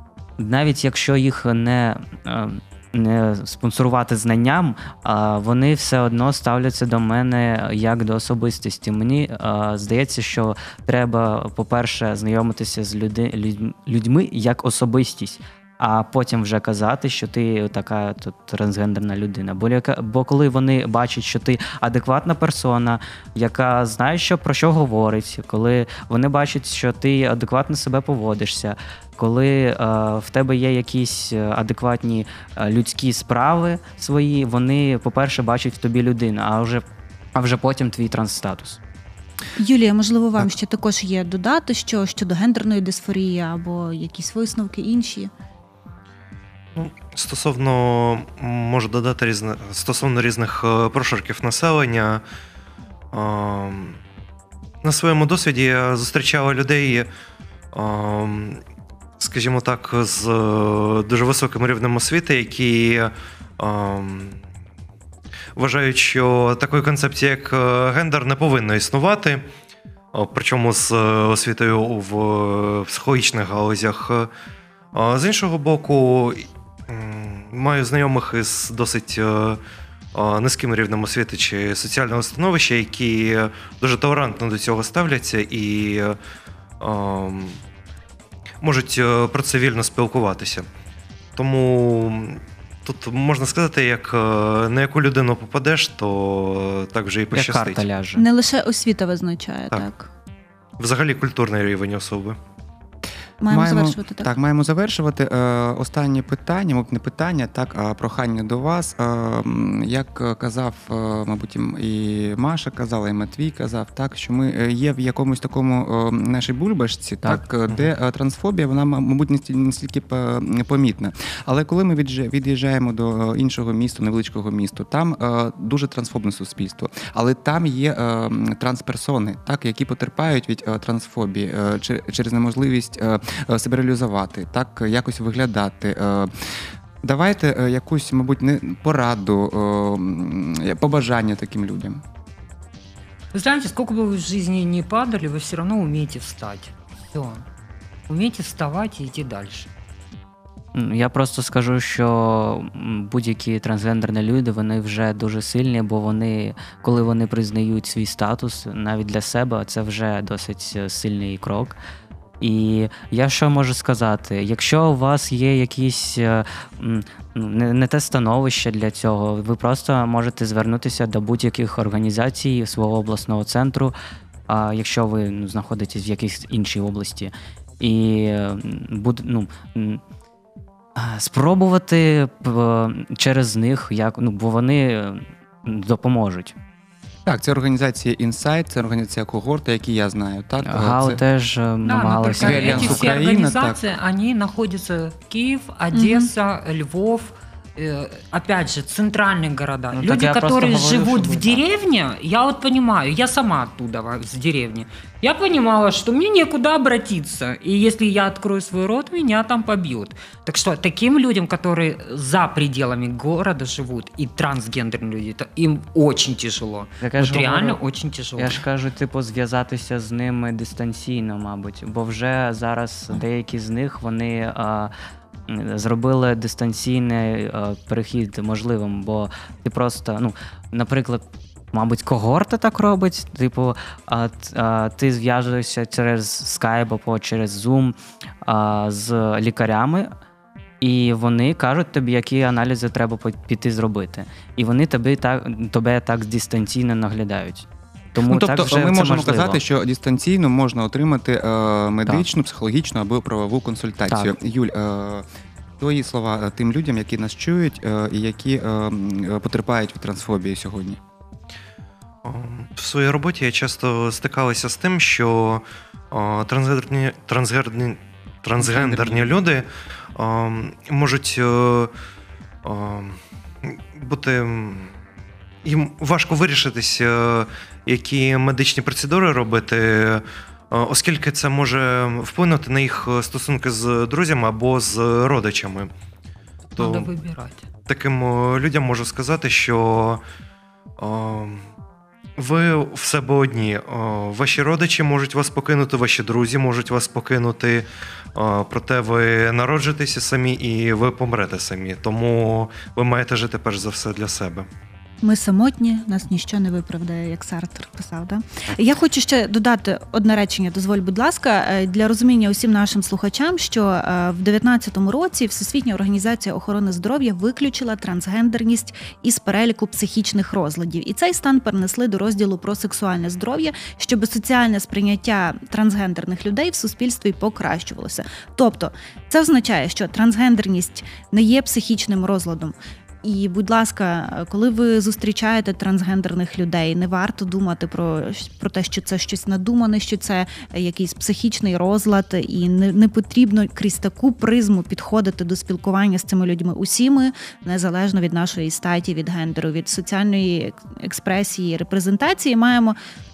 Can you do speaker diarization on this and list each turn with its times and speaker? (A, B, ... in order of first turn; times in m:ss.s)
0:00.4-0:36.8 A
0:37.4-0:38.8 A
0:39.6-0:45.3 B
0:46.7-0:52.2 C
0:53.1-0:54.0 C
0:54.8-0:57.1 C
0:57.7-0:58.6 C
0:59.2-1:04.4 C
1:05.6-1:09.4 C
1:10.1-1:14.3 C
1:14.9-1:19.6 C
1:20.1-1:26.2 C
1:26.8-1:27.6 C
1:28.6-1:30.7 C
1:31.4-1:37.8 C
1:37.3-1:38.3 A
1:38.2-1:40.1 B
1:40.8-1:42.4 C
1:43.4-1:44.3 B
1:43.5-2:16.3 D
2:17.0-2:22.0 D
2:23.3-2:27.4 E
2:28.1-2:29.7 E
2:30.7-2:41.8 A
2:42.4-2:54.0 A
2:54.5-3:00.0 A
3:01.0-3:06.6 A
3:07.3-3:11.2 D
3:10.6-3:13.1 A
3:11.8-3:38.6 E
3:12.4-3:13.8 D
3:15.9-3:16.3 B
3:19.9-3:21.6 A
3:37.0-3:37.8 A
3:38.4-3:44.9 A
3:45.5-4:00.1 A
4:00.8-4:09.6 A
4:08.3-4:15.2 D
4:14.1-4:14.4 A
4:15.8-4:21.0 D
4:22.2-4:31.9 C
4:28.6-4:29.3 D
4:32.6-4:34.9 C
4:35.6-4:45.9 C
4:46.7-4:47.7 E
4:46.8-4:47.1 C
4:47.9-4:50.2 C
4:51.0-4:51.6 C
4:52.4-5:04.7 C
5:05.2-5:53.0 B